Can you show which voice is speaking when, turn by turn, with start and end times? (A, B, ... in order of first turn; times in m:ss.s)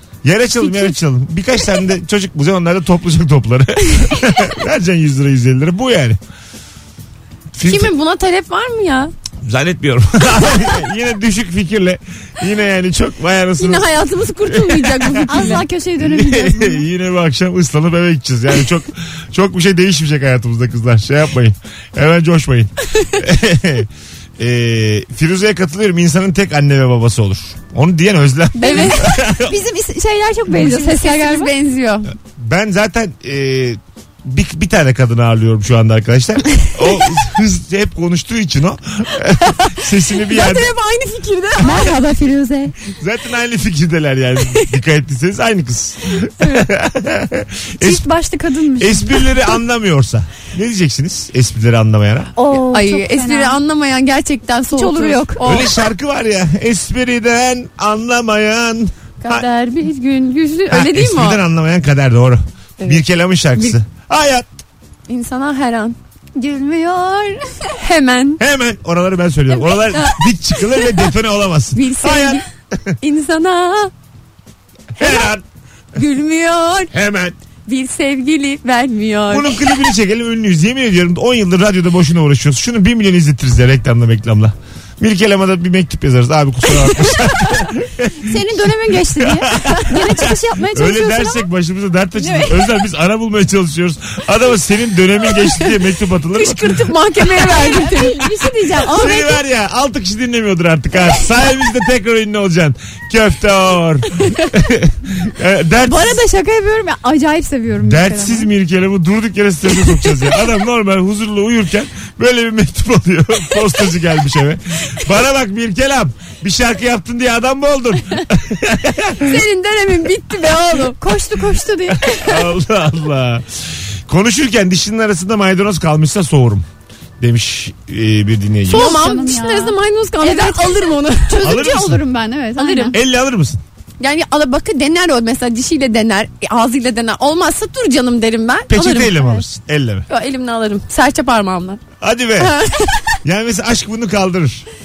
0:00.2-0:06.2 A
0:00.6-0:00.9 B
0:07.5-0:07.9 A
0:07.6-0:09.1 B
0:09.4-0:13.9 A
0:13.6-0:15.6 B
0:14.4-0:29.6 A
0:15.2-0:16.8 C
0:28.6-0:31.5 C
0:28.6-0:29.1 B
0:30.5-0:32.1 B
0:32.3-0:40.7 A
0:39.4-0:41.9 B
0:41.6-0:42.7 C
0:43.0-0:48.1 A
0:47.8-0:49.6 C
0:48.8-0:52.3 A
0:52.4-0:53.6 C
0:52.5-0:55.7 B
0:54.7-0:55.5 C
0:55.4-0:59.5 A
0:59.2-1:01.4 B
1:00.7-1:04.5 A
1:05.1-1:06.0 B
1:06.3-1:07.7 C
1:07.8-1:08.4 B
1:08.4-1:13.0 A
1:09.6-1:11.0 B
1:11.7-1:12.4 B
1:13.0-1:13.9 B
1:14.9-1:15.4 A
1:15.0-1:15.3 B
1:15.9-1:16.9 B
1:16.9-1:17.4 A
1:17.7-1:19.6 B
1:19.3-1:36.9 A
1:28.2-1:31.5 C
1:32.2-1:32.6 C
1:35.3-1:35.7 B
1:36.3-1:39.2 B
1:37.4-1:39.4 C
1:39.0-1:46.2 A
1:45.8-1:48.5 C
1:47.8-1:59.4 A
1:59.2-2:01.0 B
2:00.9-2:02.3 C
2:01.9-2:06.6 A
2:07.2-2:08.9 A
2:08.7-2:11.5 B
2:08.7-2:12.9 C
2:11.4-2:12.0 A
2:12.6-2:13.0 B
2:12.9-2:13.6 A
2:14.0-2:19.4 B
2:18.7-2:20.0 A
2:20.1-2:21.8 B
2:22.0-2:22.6 A
2:22.4-2:23.2 B
2:23.2-2:24.7 A